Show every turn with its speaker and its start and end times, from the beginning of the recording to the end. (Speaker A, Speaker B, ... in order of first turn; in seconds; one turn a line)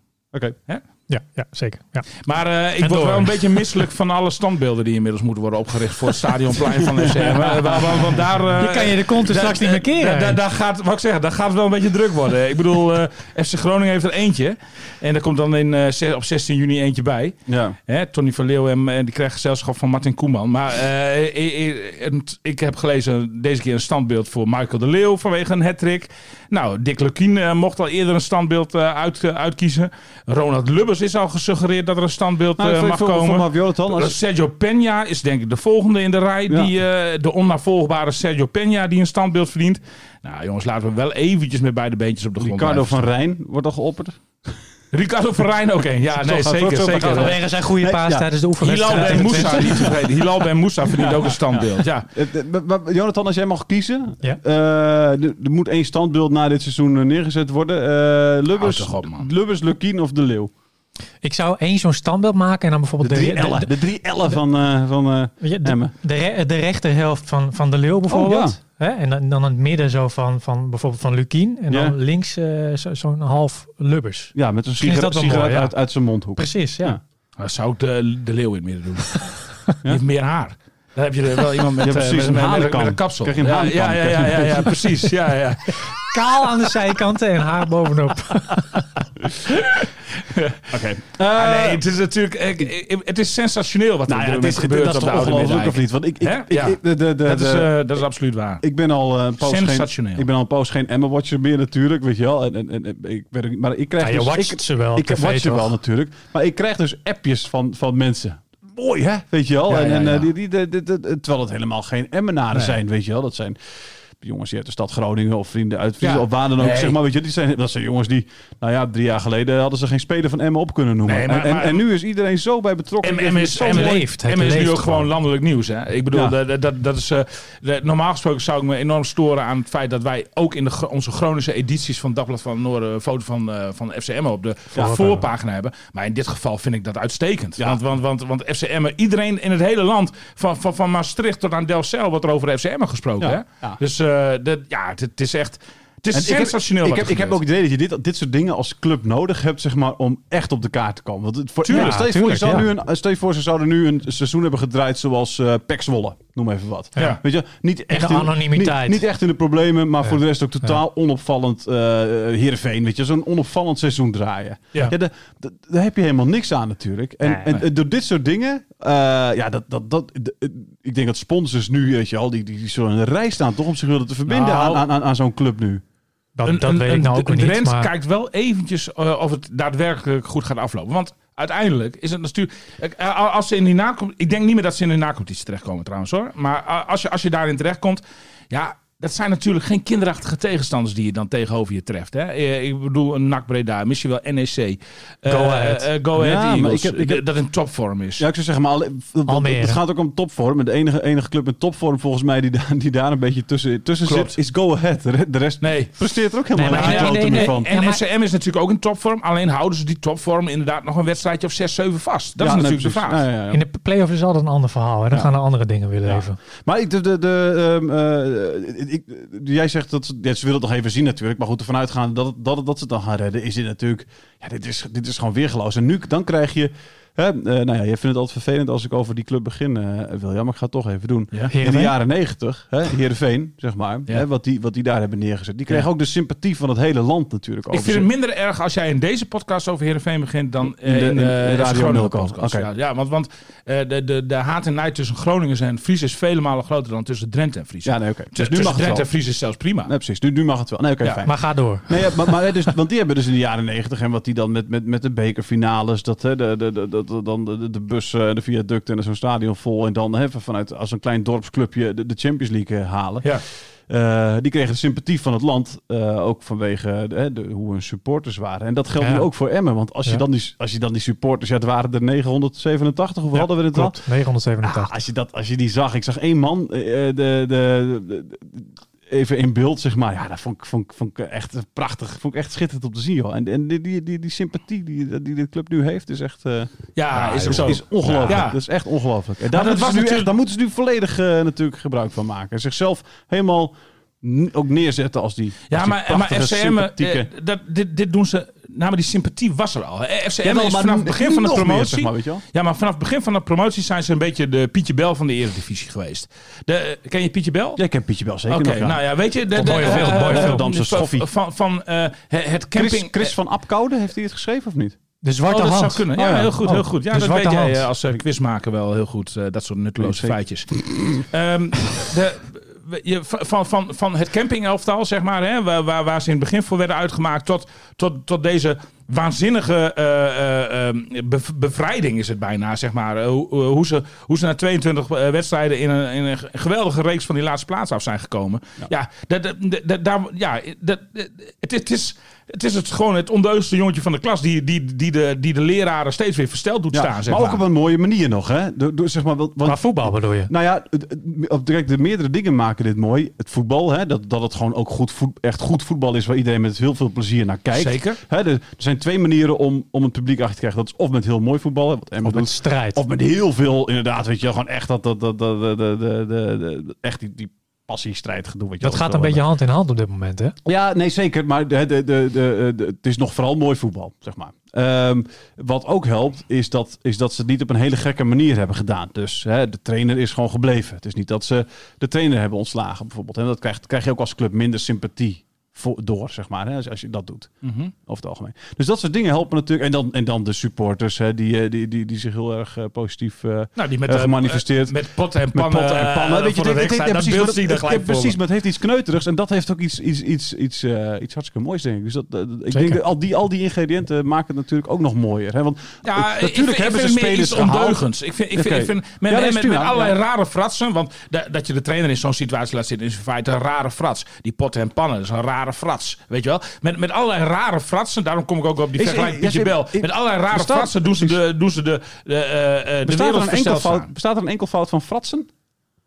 Speaker A: 1.1-2.1
Speaker B: 2.2-17.3
Speaker A: 2.8-3.6
Speaker C: 6.9-8.2
Speaker A: 8.4-10.4
Speaker C: 17.5-17.8
Speaker B: 17.9-43.0
Speaker C: 32.6-34.2
Speaker C: 42.4-44.5
Speaker B: 44.9-47.4
Speaker C: 46.1-48.3
Speaker A: 47.0-49.9
Speaker B: 48.6-52.0
Speaker C: 48.9-50.2
Speaker C: 50.8-60.5
Speaker B: 58.6-59.3
Speaker A: 61.2-63.7
Speaker C: 63.0-65.9
Speaker A: 65.4-75.7
Speaker C: 68.1-68.6
Speaker C: 71.7-71.9
Speaker C: 74.3-77.0
Speaker A: 76.4-77.0
Speaker B: 77.4-85.8
Speaker C: 81.8-85.3
Speaker A: 86.1-88.8
Speaker B: 89.4-90.8
Speaker C: 90.7-91.8
Speaker B: 91.3-98.6
Speaker C: 94.1-97.7
Speaker C: 98.6-113.6
Speaker B: 99.4-100.3
Speaker A: 104.0-105.7
Speaker B: 109.7-110.3
Speaker C: 114.2-124.0
Speaker B: 116.0-117.0
Speaker B: 121.0-121.8
Speaker B: 123.0-147.4
Speaker A: 123.7-125.1
Speaker C: 134.7-135.1
Speaker A: 134.8-135.2
Speaker C: 143.2-143.8
Speaker C: 146.1-175.8
Speaker B: 151.6-152.4
Speaker A: 151.7-152.7
Speaker A: 157.9-159.0
Speaker B: 174.3-174.8
Speaker A: 176.3-177.9
Speaker B: 176.5-198.2
Speaker A: 195.3-195.8
Speaker C: 196.1-197.2
Speaker C: 198.2-207.7
Speaker A: 199.3-199.8
Speaker B: 204.1-204.3
Speaker B: 205.6-205.9
Speaker A: 206.5-208.0
Speaker B: 206.7-213.2
Speaker C: 212.4-213.6
Speaker A: 213.5-216.4
Speaker C: 216.1-238.1
Speaker A: 231.5-231.9
Speaker B: 237.7-249.9
Speaker C: 240.8-242.7
Speaker C: 247.8-249.1
Speaker C: 249.8-263.3
Speaker A: 251.2-251.9
Speaker C: 263.9-274.0
Speaker A: 269.0-269.3
Speaker A: 273.3-274.9
Speaker C: 274.6-297.3
Speaker B: 286.9-288.6
Speaker B: 289.5-290.3
Speaker B: 295.7-307.8
Speaker C: 300.4-302.4
Speaker C: 307.8-311.3
Speaker B: 308.5-313.3
Speaker A: 309.6-310.6
Speaker C: 312.7-314.9
Speaker A: 315.2-316.0
Speaker B: 315.5-347.6
Speaker C: 316.1-316.8
Speaker A: 316.6-317.9
Speaker C: 320.0-321.2
Speaker C: 346.9-369.4
Speaker A: 349.6-350.5
Speaker B: 357.7-358.2
Speaker A: 362.2-363.0
Speaker A: 368.8-370.5
Speaker C: 370.6-394.9
Speaker B: 387.6-387.9
Speaker B: 393.8-398.4
Speaker C: 395.5-408.0
Speaker A: 402.7-403.0
Speaker B: 406.0-424.1
Speaker C: 408.5-410.1
Speaker C: 418.9-421.4
Speaker C: 423.1-425.5